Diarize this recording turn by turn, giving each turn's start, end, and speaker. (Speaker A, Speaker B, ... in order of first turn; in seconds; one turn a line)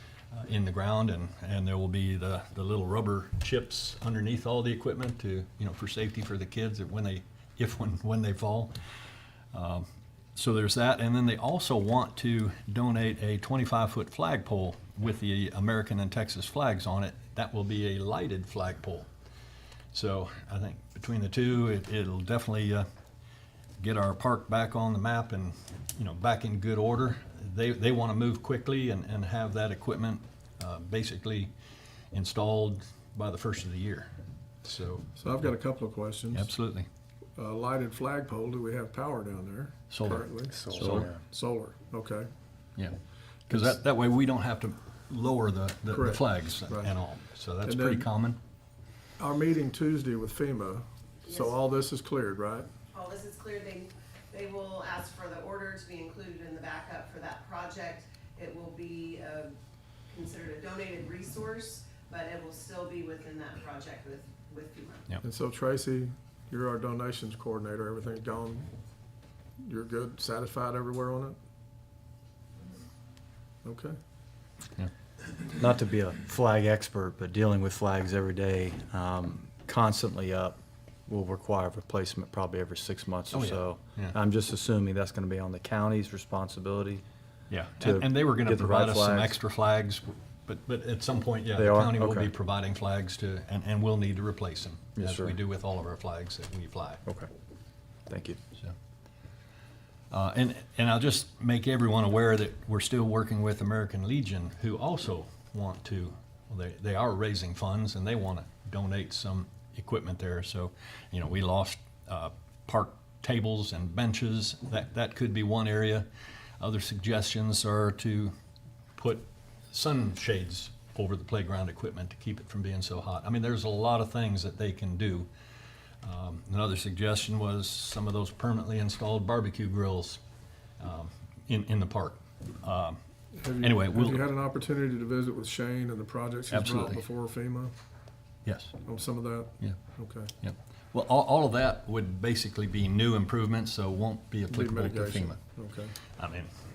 Speaker A: 0.3-8.7
Speaker A: 9.5-9.8
Speaker A: 10.4-19.1
Speaker A: 19.9-22.9
Speaker A: 23.8-31.5
Speaker A: 32.1-34.1
Speaker A: 34.6-35.4
Speaker B: 35.2-36.5
Speaker A: 36.3-36.9
Speaker B: 37.4-42.3
Speaker A: 39.9-41.2
Speaker C: 40.5-41.2
Speaker A: 43.5-48.4
Speaker B: 45.9-47.0
Speaker B: 47.6-48.1
Speaker B: 49.2-52.7
Speaker D: 51.2-51.6
Speaker D: 52.9-59.5
Speaker D: 60.1-65.1
Speaker B: 65.2-68.7
Speaker B: 69.6-71.4
Speaker B: 73.6-74.0
Speaker C: 75.6-87.0
Speaker A: 83.3-84.2
Speaker A: 87.5-97.0
Speaker C: 87.8-89.4
Speaker C: 91.5-92.3
Speaker C: 95.0-95.4
Speaker C: 98.1-98.4
Speaker A: 100.1-116.1
Speaker A: 116.6-118.3
Speaker A: 119.0-125.3
Speaker A: 126.0-130.2
Speaker A: 130.8-133.0
Speaker B: 133.3-137.7
Speaker A: 133.6-134.3
Speaker A: 136.5-137.0
Speaker A: 138.4-138.8
Speaker B: 138.8-140.3
Speaker A: 140.4-145.4
Speaker B: 144.5-146.0
Speaker A: 146.0-146.5